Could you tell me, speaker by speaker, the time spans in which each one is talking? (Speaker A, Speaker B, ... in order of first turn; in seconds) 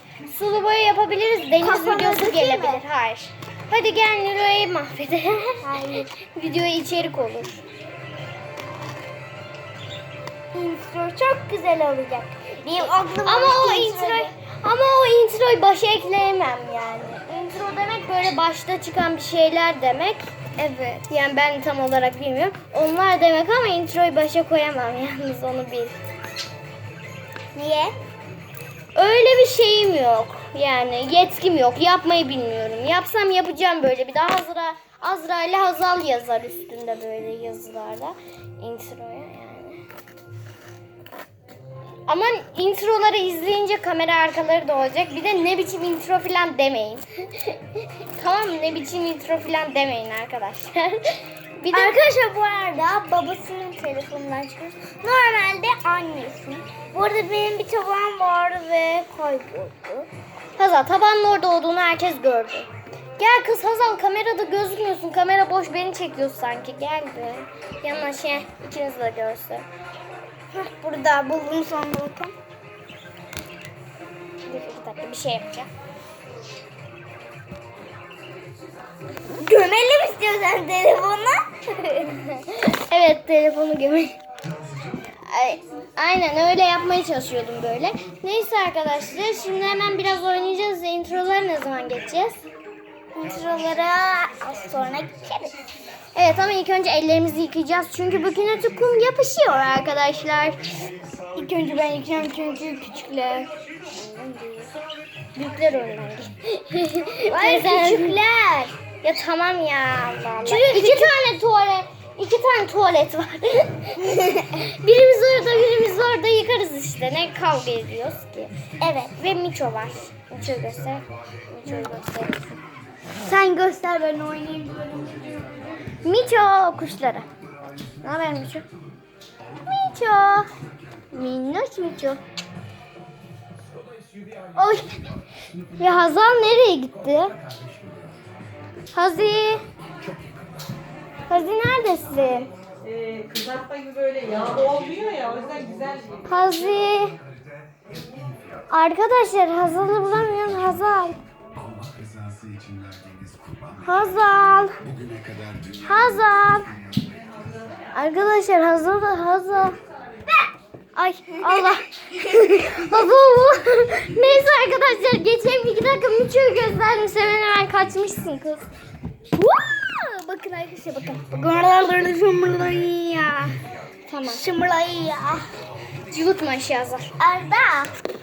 Speaker A: 0.3-7.6, 13.2-20.2, 21.1-25.9, 28.9-39.8, 42.1-52.0, 60.6-69.7, 74.5-75.7, 82.1-84.2, 85.2-92.4, 96.1-100.6, 103.9-104.7, 105.3-108.2, 109.0-113.9, 114.6-118.5, 119.2-122.6, 126.0-127.2, 128.0-128.6, 129.7-130.5, 131.1-132.2, 134.5-134.9, 135.8-137.3, 138.9-139.6, 141.3-142.5, 146.3-147.1, 148.7-151.2, 153.8-154.7, 155.8-156.7, 157.9-159.7, 160.9-168.7, 174.1-174.4, 176.1-177.1
Speaker B: 1.6-2.8, 5.6-6.1, 10.5-14.3, 20.6-21.0, 27.5-27.9, 51.7-60.1, 70.5-72.3, 79.4-82.1, 93.2-95.5, 101.3-103.5, 107.3-108.8, 110.4-111.1, 114.0-114.5, 118.8-119.1, 123.2-125.6, 169.3-173.6, 174.3-175.4, 177.2-177.9
Speaker C: 142.8-146.2